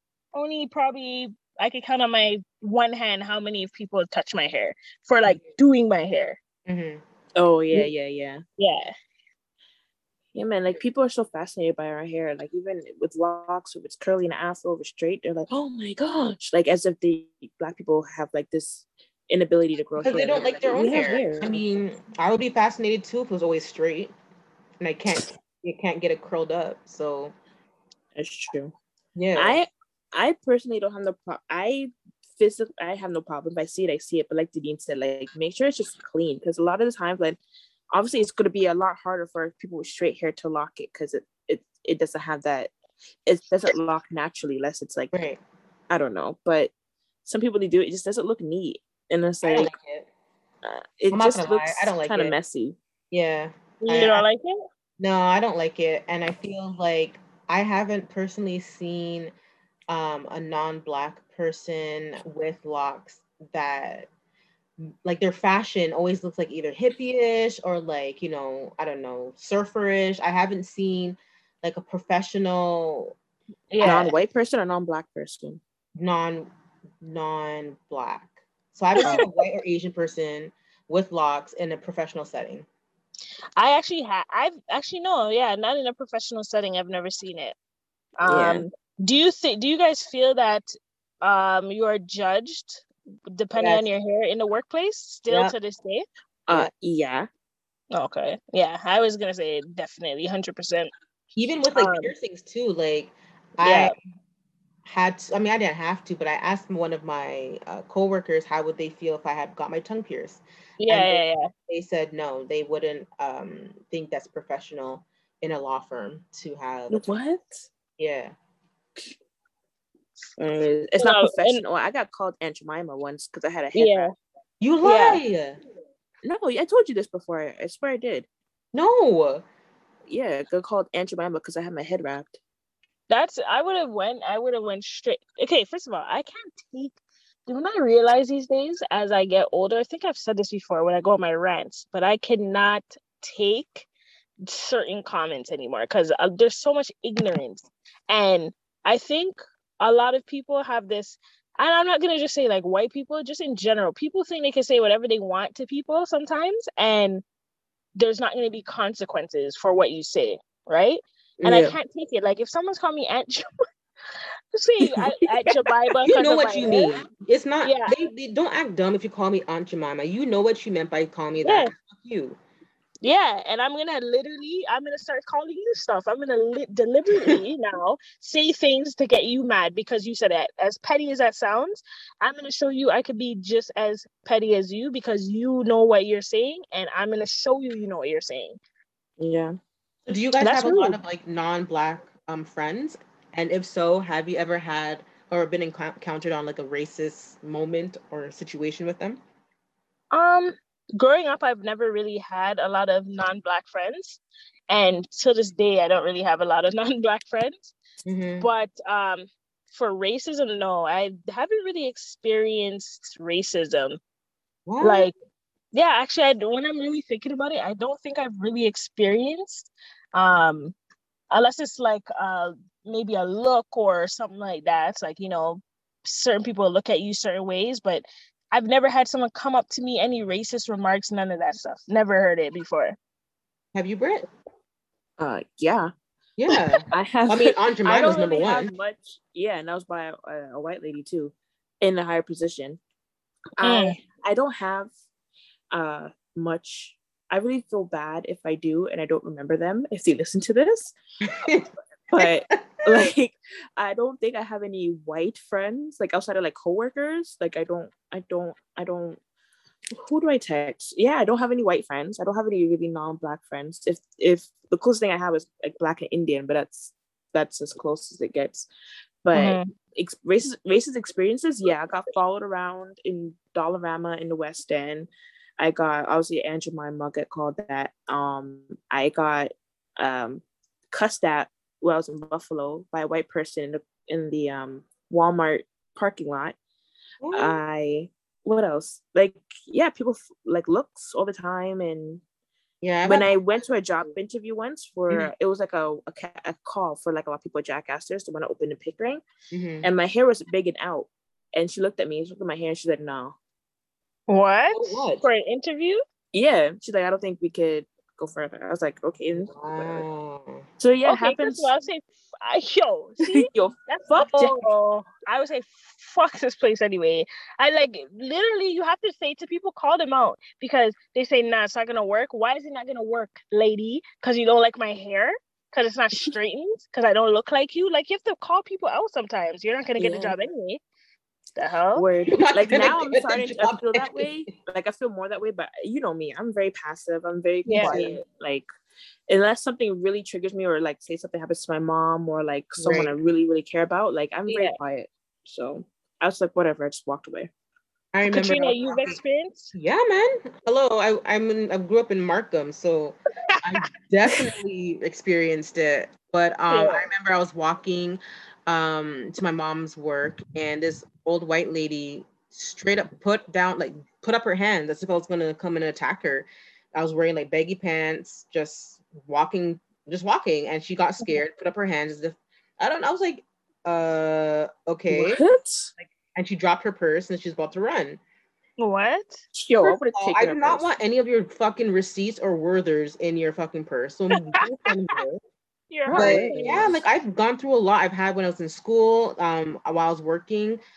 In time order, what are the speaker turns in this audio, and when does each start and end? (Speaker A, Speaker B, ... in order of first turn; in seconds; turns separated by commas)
Speaker A: 0.3-6.4, Speaker B: 6.7-7.0, Speaker C: 7.3-8.4, Speaker A: 8.6-8.9, Speaker C: 10.3-21.6, Speaker B: 20.0-24.1, Speaker B: 24.8-27.3, Speaker C: 28.1-28.7, Speaker B: 29.1-29.6, Speaker C: 29.3-37.4, Speaker C: 37.9-42.7, Speaker C: 43.2-45.1, Speaker B: 45.1-45.4, Speaker C: 45.9-46.7, Speaker C: 47.2-49.7, Speaker B: 49.4-50.1, Speaker C: 50.6-52.8, Speaker B: 51.1-52.4, Speaker B: 53.1-54.2, Speaker A: 53.8-54.6, Speaker B: 55.0-59.3, Speaker B: 59.9-64.1, Speaker B: 65.0-73.2, Speaker A: 73.7-74.1, Speaker B: 73.8-74.1, Speaker C: 73.8-75.6, Speaker B: 76.0-76.5, Speaker B: 77.0-82.7, Speaker A: 83.6-87.5, Speaker A: 88.2-90.7, Speaker C: 88.3-88.7, Speaker A: 91.2-96.0, Speaker B: 93.5-93.9, Speaker B: 95.3-95.5, Speaker C: 96.5-97.3, Speaker A: 97.9-100.9, Speaker B: 101.3-103.9, Speaker A: 101.8-102.1, Speaker A: 103.6-103.9, Speaker B: 104.8-117.0, Speaker A: 110.8-111.5, Speaker C: 116.9-117.7, Speaker B: 118.0-118.3, Speaker C: 120.4-124.1, Speaker A: 121.0-121.6, Speaker A: 123.7-124.1, Speaker B: 124.6-125.6, Speaker A: 124.8-125.2, Speaker C: 126.2-128.3, Speaker B: 128.7-129.4, Speaker C: 130.1-132.4, Speaker A: 133.1-143.9, Speaker A: 144.5-157.2, Speaker A: 158.0-163.4, Speaker C: 161.4-161.8, Speaker A: 164.5-166.9, Speaker C: 164.8-165.6, Speaker B: 166.1-172.4, Speaker A: 167.6-167.9, Speaker A: 171.4-171.7, Speaker A: 173.0-188.6, Speaker C: 189.2-189.6, Speaker B: 190.1-199.2, Speaker C: 190.4-190.8, Speaker A: 190.5-190.9, Speaker A: 200.1-207.7, Speaker B: 208.0-208.5, Speaker A: 208.4-214.0, Speaker B: 214.7-215.1, Speaker A: 214.8-215.1, Speaker A: 215.7-220.8, Speaker A: 221.3-233.0, Speaker B: 233.7-234.2, Speaker C: 235.2-235.9, Speaker B: 236.4-238.7, Speaker C: 236.5-242.8, Speaker C: 243.6-244.9, Speaker A: 243.6-244.0, Speaker C: 245.7-251.0, Speaker B: 251.2-253.1, Speaker C: 252.1-259.2, Speaker C: 260.0-268.7, Speaker C: 269.2-286.6, Speaker A: 269.3-269.7, Speaker B: 287.2-287.6, Speaker C: 287.3-292.2, Speaker B: 292.8-293.4, Speaker C: 293.0-299.2, Speaker B: 299.5-299.9, Speaker C: 299.8-303.4, Speaker A: 304.3-306.0, Speaker B: 304.7-305.2, Speaker C: 306.3-310.0, Speaker B: 309.4-310.6, Speaker C: 310.8-311.7, Speaker A: 311.0-330.8, Speaker C: 313.3-314.7, Speaker C: 330.0-330.3, Speaker A: 331.6-332.0, Speaker C: 332.0-338.6, Speaker B: 332.3-334.3, Speaker A: 337.6-338.2, Speaker B: 337.7-338.2, Speaker C: 339.3-347.5, Speaker B: 342.8-343.1, Speaker A: 344.5-344.8, Speaker B: 348.1-349.2, Speaker A: 348.2-349.7, Speaker B: 349.7-375.4, Speaker A: 353.5-353.8, Speaker A: 356.7-357.1, Speaker C: 375.1-375.9, Speaker B: 376.0-378.2, Speaker A: 378.8-379.4, Speaker C: 379.5-380.8, Speaker B: 380.1-385.4, Speaker A: 385.9-386.9, Speaker C: 386.1-387.0, Speaker B: 386.1-390.8